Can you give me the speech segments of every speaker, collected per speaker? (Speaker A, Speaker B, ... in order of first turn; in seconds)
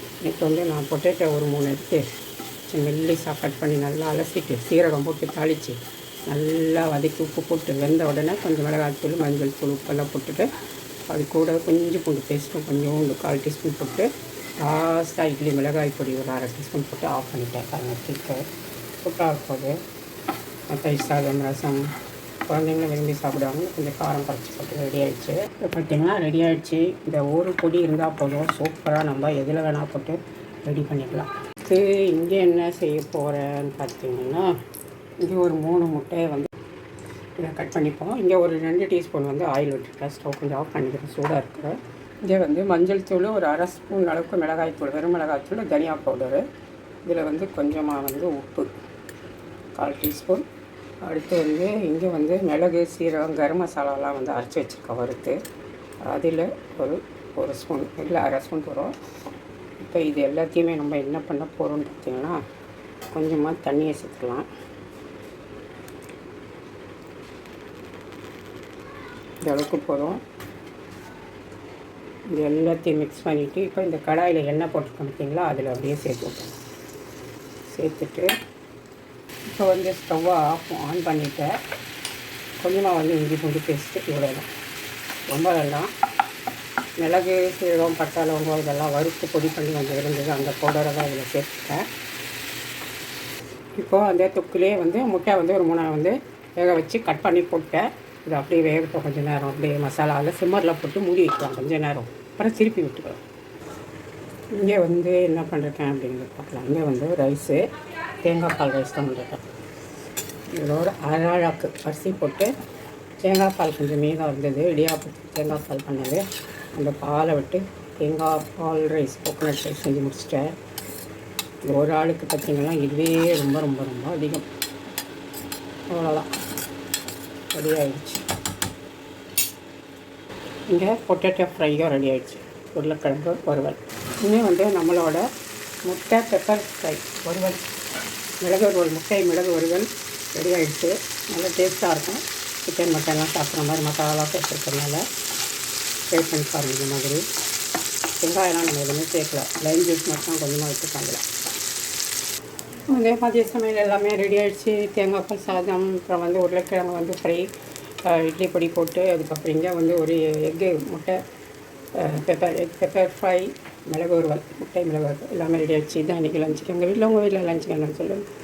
Speaker A: 0.2-2.1, 2.7-10.5, 11.1-14.1, 14.6-18.4, 19.0-19.7, 20.7-21.8, 22.5-34.5, 35.2-36.5, 37.4-46.4, 47.0-48.7, 49.8-50.5, 51.0-55.4, 56.0-58.9, 59.8-62.4, 63.1-64.5, 69.4-70.2, 72.3-76.5, 77.7-78.3, 79.5-81.5, 82.6-84.5, 85.3-85.9, 87.0-91.9, 93.8-103.2, 104.5-107.6, 108.2-109.4, 110.5-112.5, 113.2-116.2, 116.7-120.5, 121.6-124.5, 125.9-126.3, 127.5-128.2, 130.7-135.2, 135.9-137.7, 138.4-145.0, 146.1-147.2, 148.2-151.2, 152.9-157.5, 158.0-161.2, 161.9-168.2